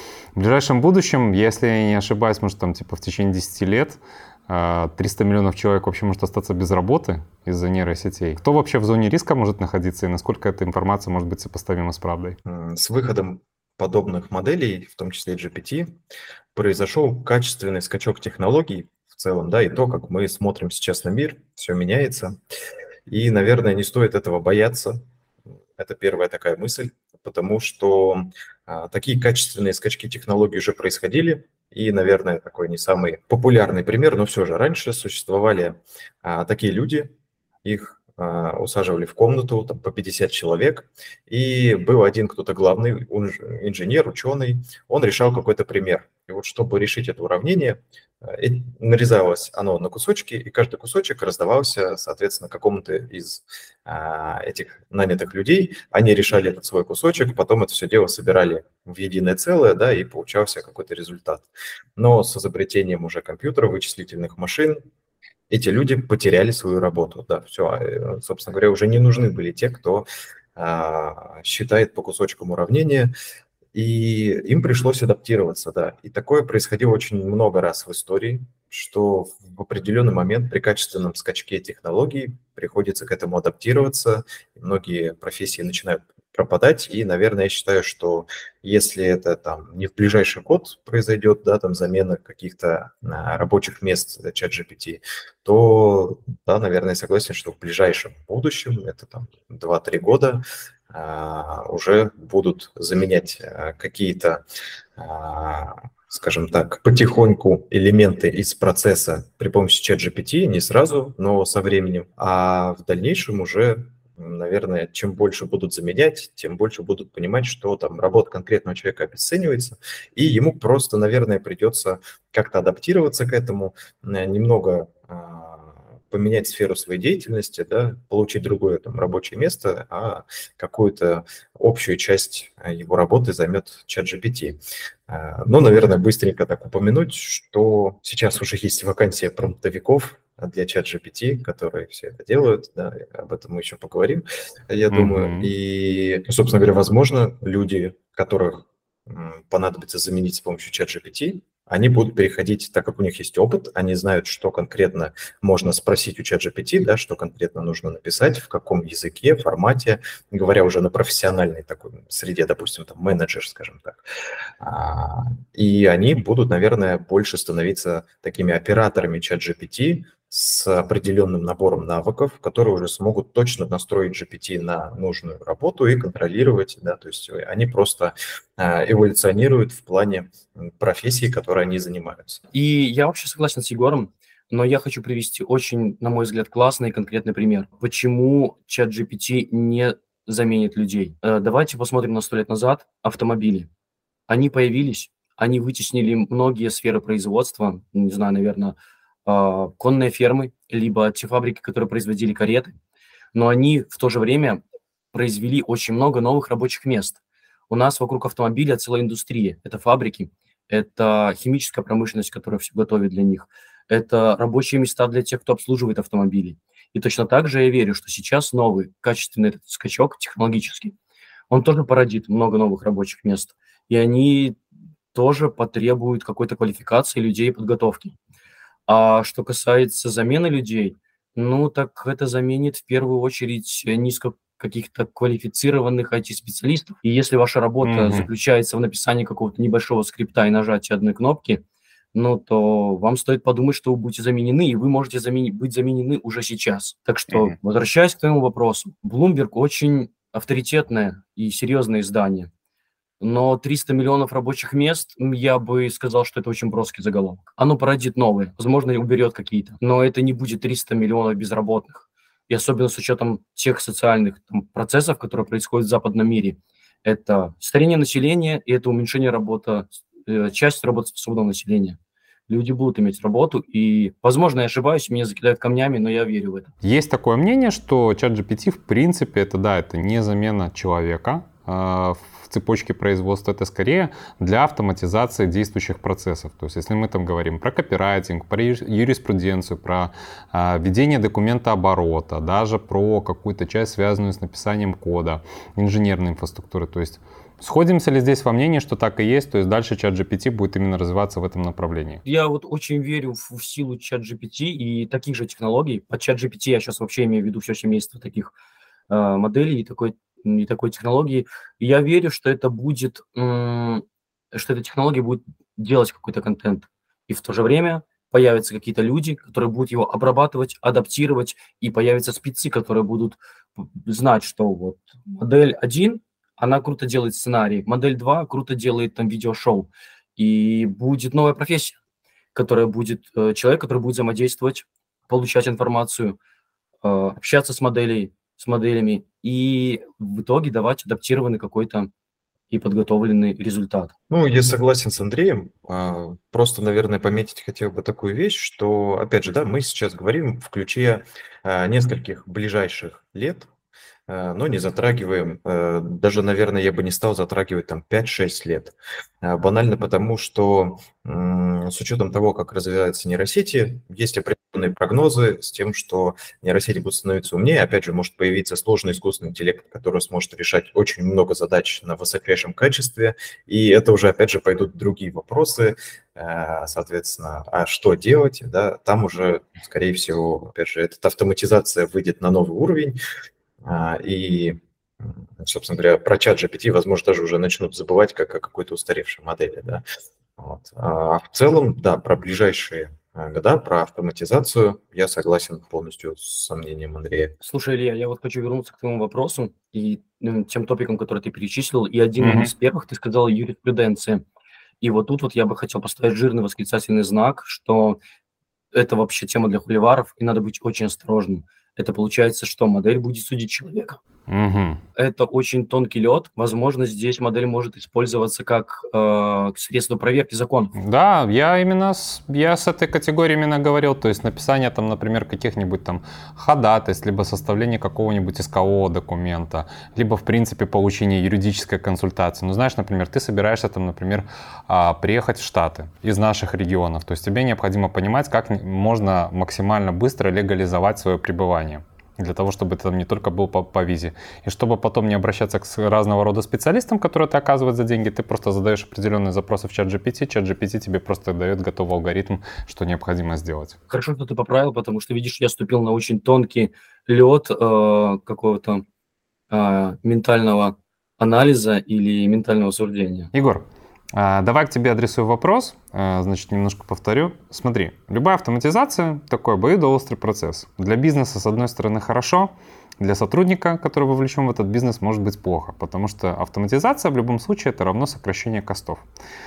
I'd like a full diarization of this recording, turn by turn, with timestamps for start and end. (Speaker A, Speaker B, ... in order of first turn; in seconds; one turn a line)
Speaker A: 0.3-12.4
Speaker B: 12.5-16.0
Speaker B: 16.6-22.4
Speaker B: 23.1-25.0
Speaker B: 25.8-37.1
Speaker B: 37.6-64.8
Speaker B: 65.5-73.1
Speaker B: 73.7-104.4
Speaker B: 105.0-164.0
Speaker A: 144.9-145.5
Speaker B: 164.6-182.4
Speaker C: 182.5-193.7
Speaker C: 194.3-202.7
Speaker C: 203.3-204.6
Speaker C: 205.1-220.9
Speaker C: 221.5-224.6
Speaker C: 225.1-228.2
Speaker C: 228.9-241.6
Speaker A: 237.8-238.3
Speaker C: 242.1-252.5
Speaker C: 253.2-276.7
Speaker A: 276.8-302.2
Speaker C: 302.2-308.5
Speaker C: 309.1-332.0
Speaker C: 332.6-336.4
Speaker C: 337.0-342.1
Speaker C: 342.7-344.1
Speaker B: 344.3-353.7
Speaker B: 354.3-383.2
Speaker B: 383.8-390.0
Speaker B: 390.6-397.6
Speaker C: 397.6-404.4
Speaker A: 402.4-402.7
Speaker C: 405.0-408.2
Speaker C: 408.9-414.2
Speaker A: 414.5-415.0
Speaker C: 415.2-420.9
Speaker A: 421.0-454.0
Speaker C: 454.1-459.0
Speaker C: 459.7-463.5
Speaker A: 463.5-479.2